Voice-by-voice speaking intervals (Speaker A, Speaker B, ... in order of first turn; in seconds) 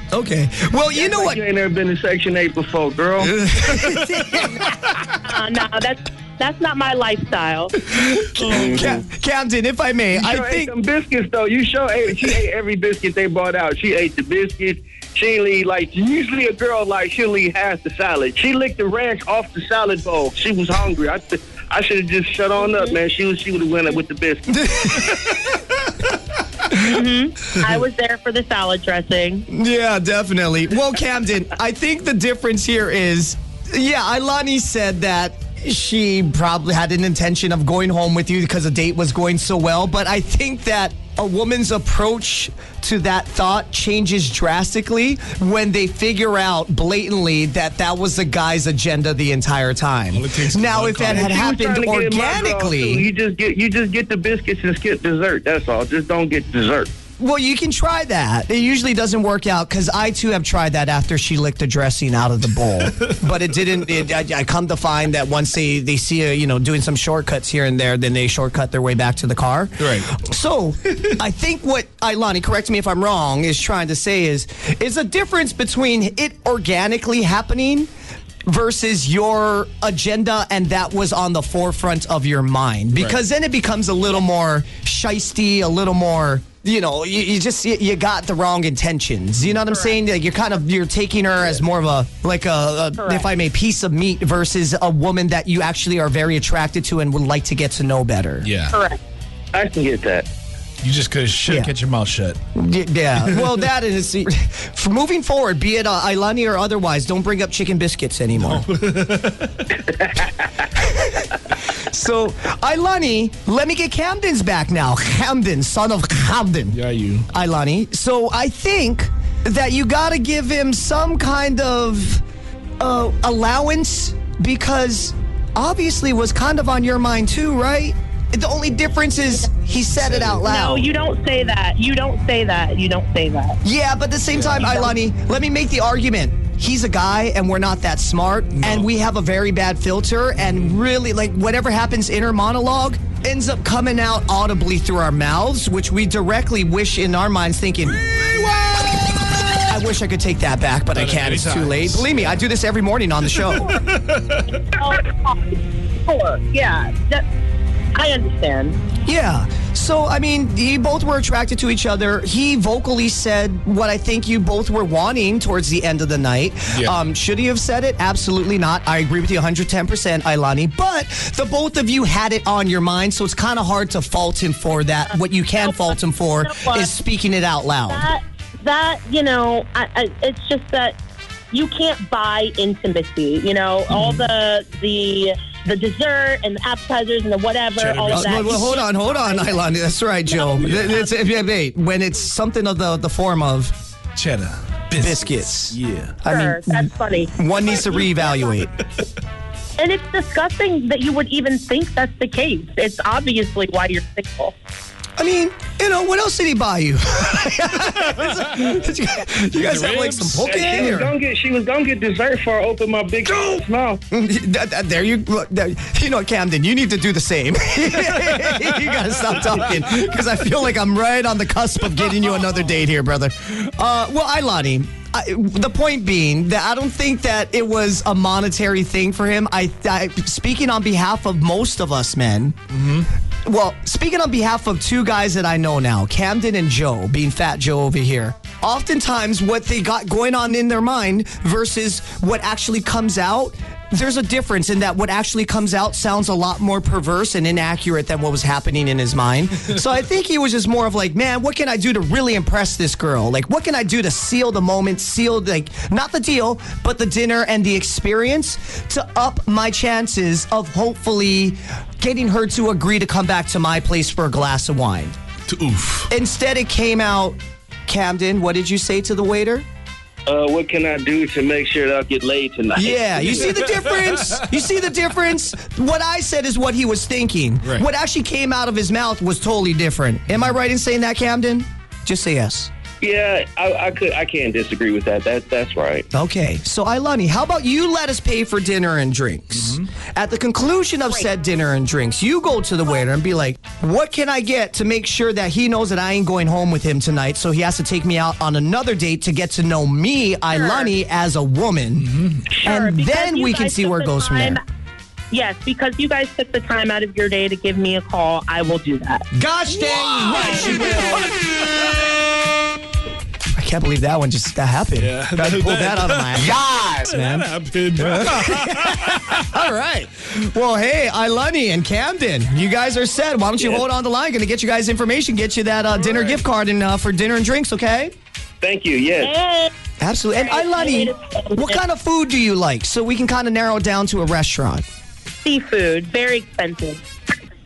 Speaker A: 0.1-1.4, 3.2-4.7, 8.0-10.7, 24.5-25.6, 29.5-53.1, 57.2-77.9, 78.5-98.5, 101.5-101.7, 102.5-108.7, 110.8-116.8, 117.3-122.2, 122.8-130.9, 133.6-148.0, 149.6-153.7, 159.1-178.1, 183.9-184.3, 188.1-193.7, 195.0-198.7, 205.2-211.1, 214.1-232.6, 233.4-265.2, 266.1-269.6, 272.8-282.7, 286.1-302.1, 302.6-304.6, 309.3-311.3, 313.6-328.1, 330.0-334.8
Speaker B: 0.9-3.4, 8.4-9.0, 10.1-24.6, 51.1-56.9, 99.5-100.3, 109.9-110.7, 210.4-214.0, 270.3-273.6, 283.0-286.1, 323.6-323.9, 328.6-329.3
Speaker C: 5.2-7.8, 22.6-22.9, 26.7-29.5, 89.7-90.0, 93.0-93.3, 98.7-99.0, 130.4-133.6, 154.6-157.2, 157.9-158.8, 175.1-176.9, 177.9-181.0, 181.5-189.7, 190.3-191.1, 196.3-198.5, 199.8-204.5, 300.5-300.9, 302.6-304.6, 305.3-309.2, 310.2-311.0, 329.2-329.7, 330.4-331.8, 335.4-337.0
Speaker D: 50.1-51.3, 69.8-70.2, 98.4-98.8, 100.8-102.4, 108.3-109.7, 116.7-117.3, 129.9-130.4, 134.3-134.7, 138.6-138.9, 148.0-149.1, 150.9-152.4, 153.4-154.6, 187.8-188.7, 190.7-190.9, 194.2-196.2, 209.5-210.6, 232.7-233.1, 265.5-266.1, 273.4-274.4, 302.0-302.5, 309.9-310.7, 311.2-312.1, 315.0-319.4